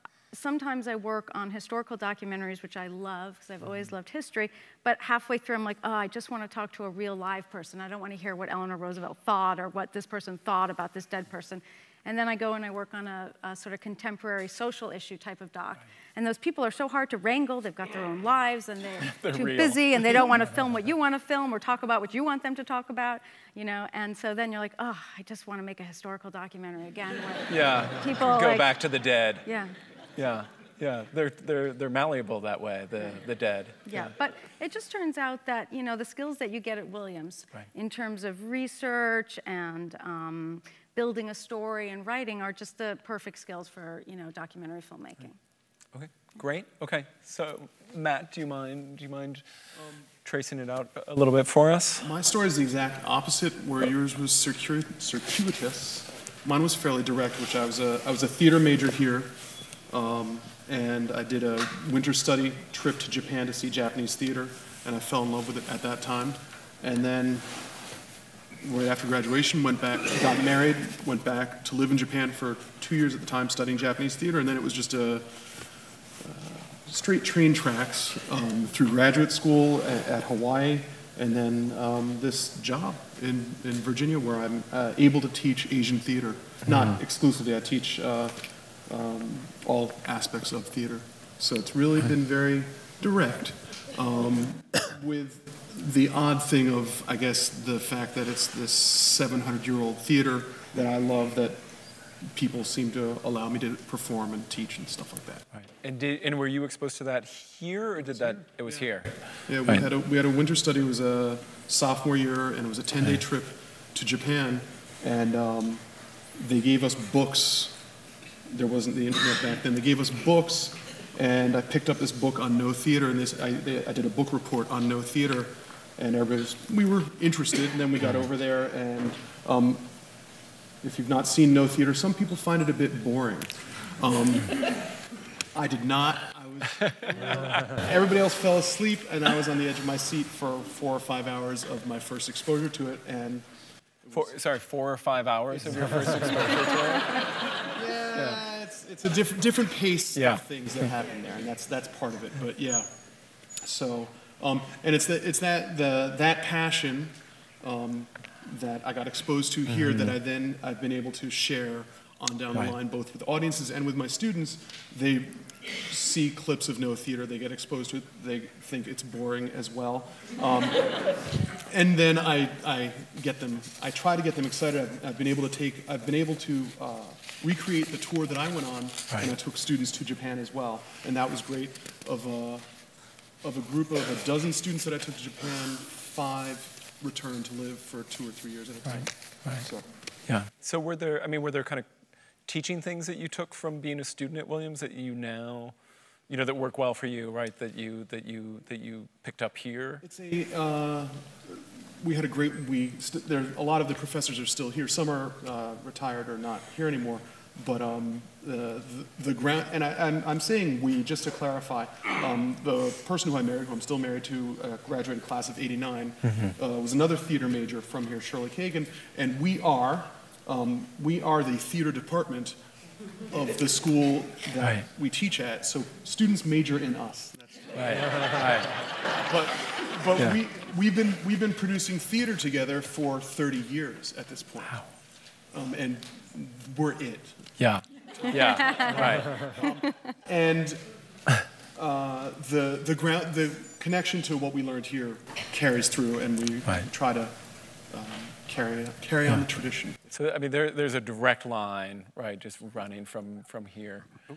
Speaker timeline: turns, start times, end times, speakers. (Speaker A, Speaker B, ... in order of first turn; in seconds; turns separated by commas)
Speaker A: 0.3-28.7, Speaker B: 19.0-20.2, Speaker B: 27.5-29.5, Speaker A: 29.4-29.7, Speaker B: 30.1-34.0, Speaker A: 33.9-45.4, Speaker B: 45.9-49.4, Speaker B: 50.2-52.1, Speaker C: 52.0-67.9, Speaker C: 68.6-105.5, Speaker B: 105.5-109.9, Speaker C: 108.0-108.9, Speaker C: 109.4-117.9, Speaker C: 118.5-135.0, Speaker C: 135.5-143.5, Speaker B: 136.8-137.8, Speaker C: 144.0-144.3, Speaker B: 144.1-147.3, Speaker C: 145.5-146.6, Speaker C: 147.6-189.9, Speaker B: 148.1-148.4, Speaker B: 150.1-150.4, Speaker B: 159.7-160.1, Speaker B: 189.0-189.6, Speaker B: 190.3-191.9, Speaker B: 192.5-195.7, Speaker B: 196.3-200.0, Speaker C: 200.0-222.6, Speaker B: 216.2-216.5, Speaker C: 223.2-234.9, Speaker B: 227.7-228.8, Speaker C: 235.5-237.5, Speaker B: 237.6-239.6, Speaker C: 238.2-241.0, Speaker A: 238.5-238.9, Speaker C: 241.7-250.0, Speaker B: 250.1-254.2